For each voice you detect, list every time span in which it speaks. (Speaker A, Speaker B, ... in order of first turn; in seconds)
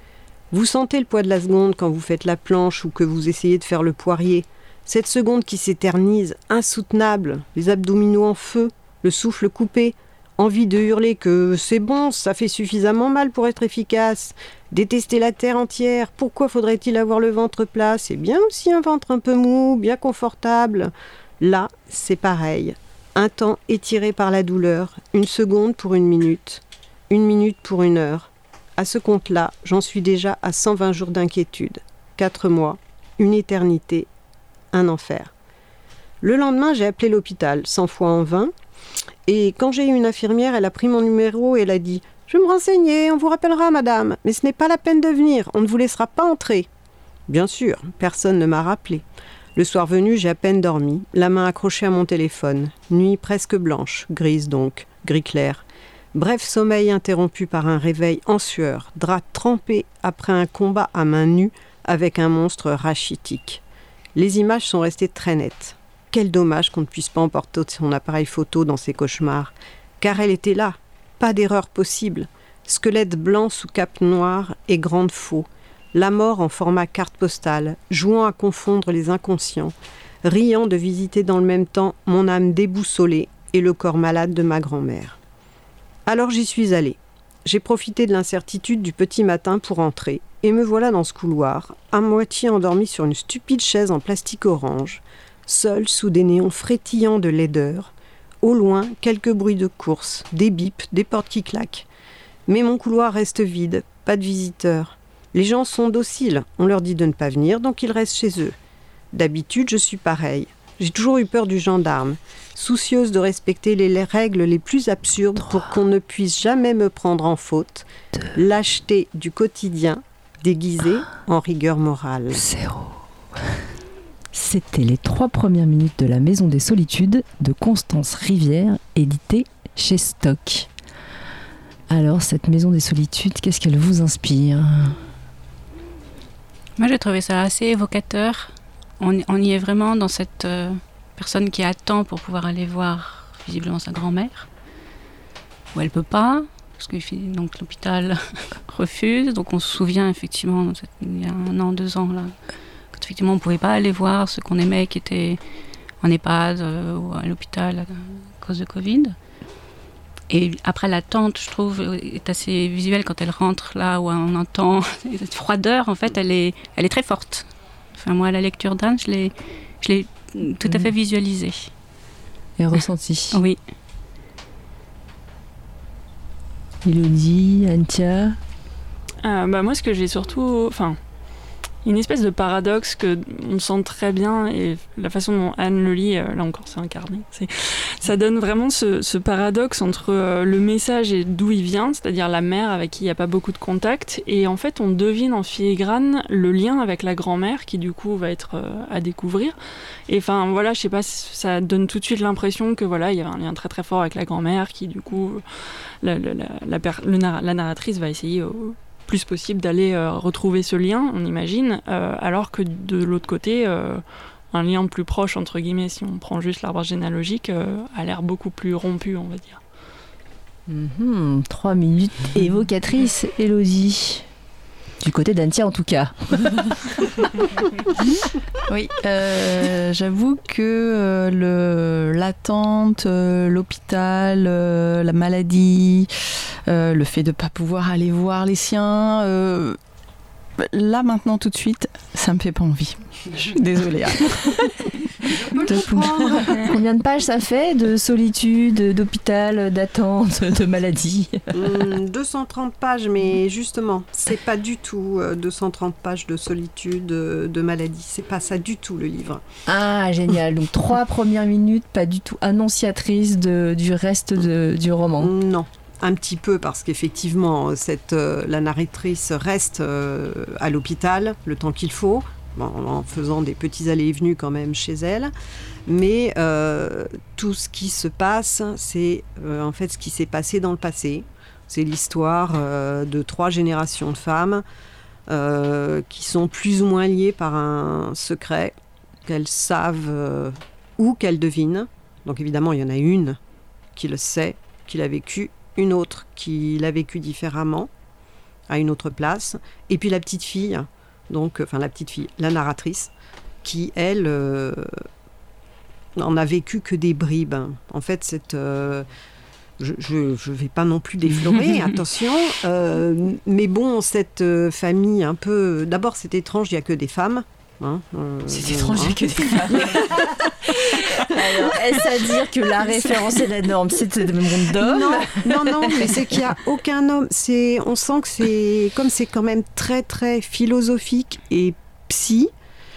Speaker A: 0.5-34.1, 34.7-35.3, 36.2-38.5, 39.3-46.7, 47.3-49.0, 49.6-63.6, 64.2-85.2, 86.1-101.9, 102.5-108.6, 109.1-122.5, 245.3-246.6, 251.5-259.4, 265.2-275.3, 275.9-284.6, 285.3-293.4, 294.0-297.9, 298.7-303.1, 303.6-304.9, 306.2-309.1, 309.8-321.8, 324.6-332.5
Speaker B: 122.3-123.0, 124.3-130.7, 131.9-135.0, 172.6-173.4, 176.8-178.4, 220.7-224.3, 225.0-227.1, 246.5-251.8, 259.7-265.3, 318.5-326.4
Speaker C: 136.8-144.5, 145.8-152.4, 152.9-155.4, 156.0-159.2, 160.3-171.7, 173.3-173.6
Speaker D: 179.2-181.0, 181.8-199.6, 200.1-219.6
Speaker E: 228.7-236.1, 236.7-239.8, 240.6-246.4